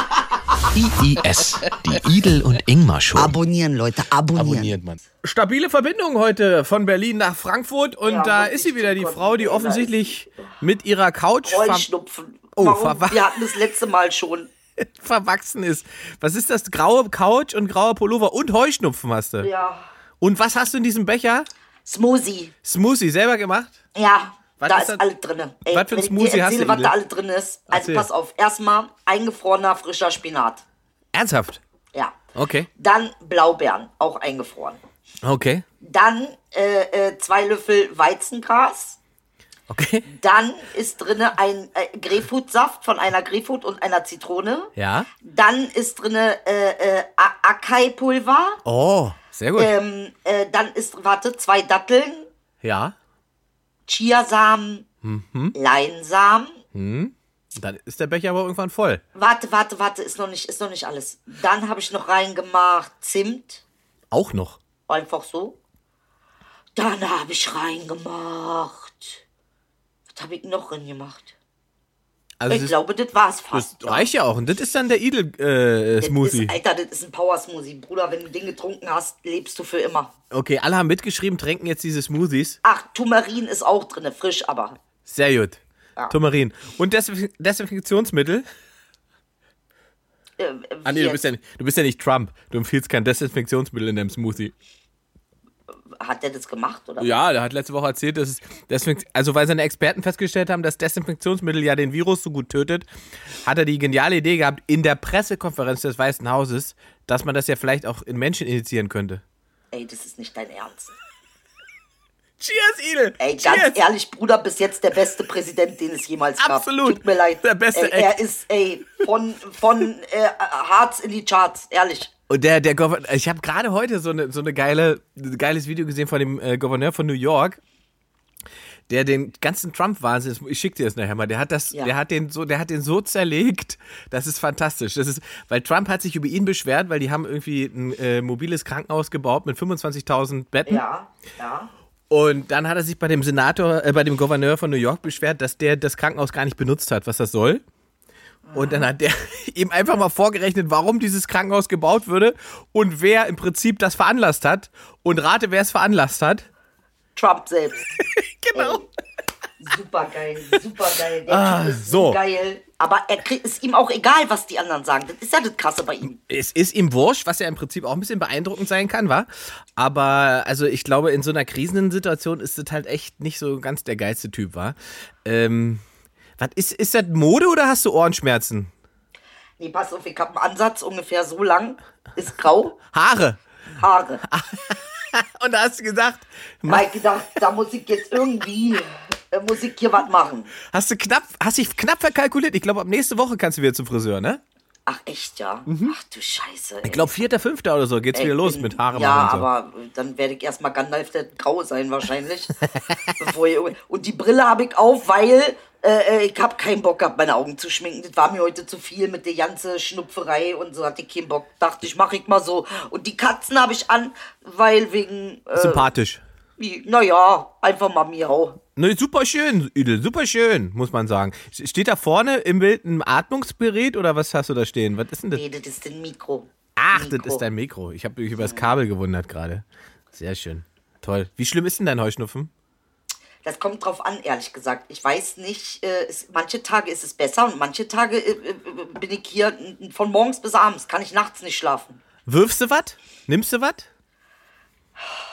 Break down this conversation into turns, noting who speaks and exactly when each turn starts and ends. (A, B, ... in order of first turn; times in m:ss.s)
0:00.7-0:01.2 A
0:01.0-0:03.4 B
0:03.2-0:04.8 A
0:04.4-0:04.8 B
0:05.2-0:11.9 C
0:08.0-0:10.2 D
0:11.4-0:14.5 D
0:12.6-0:13.5 C
0:14.8-0:19.5 C
0:19.4-0:19.9 D
0:20.2-0:21.5 C
0:21.9-0:22.5 D
0:22.6-0:23.8 C
0:24.0-0:30.6 D
0:24.6-0:25.1 C
0:25.7-0:26.9 C
0:27.7-0:28.1 C
0:31.1-0:31.6 C
0:32.3-0:32.7 C
0:32.8-0:34.8 D
0:35.2-0:35.6 C
0:35.8-0:39.0 D
0:39.7-0:40.1 C
0:40.1-0:48.6 D
0:44.8-0:45.1 C
0:48.6-0:49.7 C
0:49.6-0:52.3 D
0:52.6-0:53.0 C
0:53.9-0:54.9 D
0:55.0-0:55.6 C
0:55.6-0:56.6 D
0:56.7-0:59.0 C
0:59.2-1:03.6 D
1:04.1-1:04.6 C
1:04.9-1:05.6 D
1:06.8-1:09.2 D
1:10.1-1:11.3 D
1:12.4-1:12.8 C
1:12.5-1:14.1 D
1:13.5-1:16.6 C
1:16.0-1:20.1 D
1:20.3-1:22.6 C
1:22.6-1:24.8 D
1:25.1-1:28.5 C
1:30.4-1:31.3 D
1:30.8-1:34.5 C
1:36.0-1:37.1 D
1:37.0-1:42.9 C
1:43.4-1:49.2 C
1:49.7-1:50.9 D
1:52.4-1:53.8 C
1:53.2-2:02.1 D
1:56.4-1:58.2 C
2:02.3-2:07.6 C
2:08.9-2:20.8 C
2:20.7-2:21.7 D
2:22.1-2:27.6 C
2:28.4-2:28.9 D
2:28.5-2:36.5 C
2:37.2-2:37.9 D
2:38.0-2:38.8 C
2:38.5-2:38.9 D
2:39.6-2:46.2 D
2:41.3-2:42.2 C
2:46.0-2:55.8 C
2:56.4-2:58.7 C
2:59.6-3:02.8 D
3:02.9-3:03.4 C
3:03.8-3:04.2 D
3:04.3-3:06.9 C
3:06.7-3:10.5 D
3:10.7-3:14.4 C
3:14.9-3:17.2 D
3:15.7-3:16.0 C
3:16.8-3:19.5 C
3:18.1-3:35.9 D
3:35.6-3:36.2 C
3:36.6-3:38.6 D
3:38.8-3:45.4 C
3:45.3-3:47.4 D
3:46.8-3:52.5 C
3:48.4-3:48.7 D
3:53.4-4:02.0 D
4:02.3-4:03.9 C